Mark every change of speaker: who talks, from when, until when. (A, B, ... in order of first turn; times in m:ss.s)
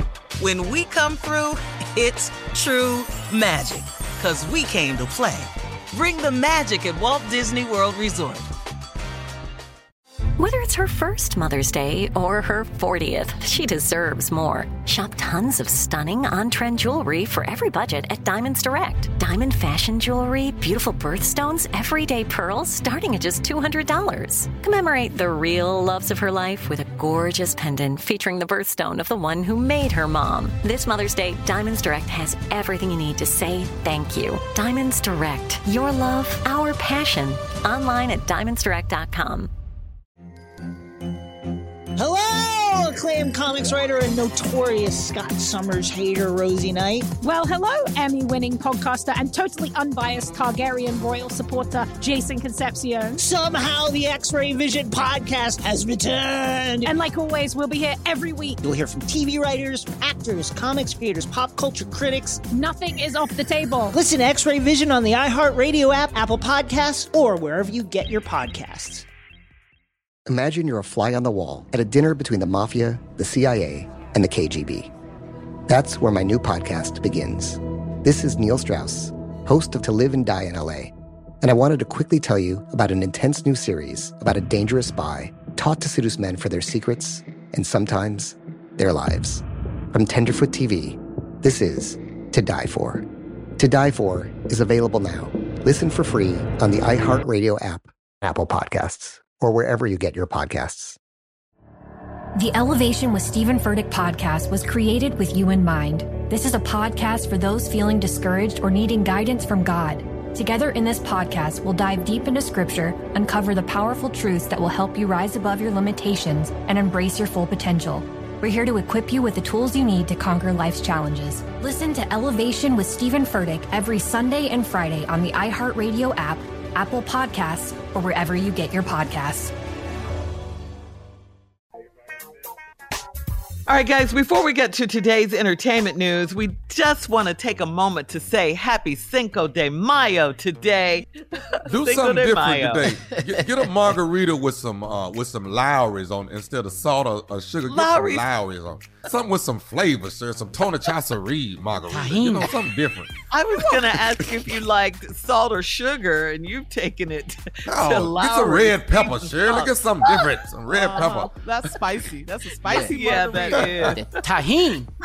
0:00.4-0:08.5 A
0:10.4-0:39.5 B
0:42.0-0:47.0 C
0:47.2-0:53.2 D
0:53.2-0:56.9 C
0:56.8-0:58.6 D
0:58.6-1:02.4 C
1:02.5-1:03.9 D
1:04.0-1:09.0 C
1:10.3-1:14.9 E
1:15.7-1:33.0 E
1:33.6-1:41.0 E
1:42.4-2:09.5 F
2:13.7-2:22.9 G
2:21.7-2:33.1 H
2:23.1-2:23.9 I
2:27.7-2:28.2 G
2:31.9-2:32.6 I
2:33.3-2:40.3 G
2:34.2-2:34.4 H
2:37.7-2:41.8 H
2:40.7-2:43.7 J
2:42.6-2:43.0 I
2:42.8-2:44.1 G
2:43.7-2:44.0 H
2:43.8-2:44.9 I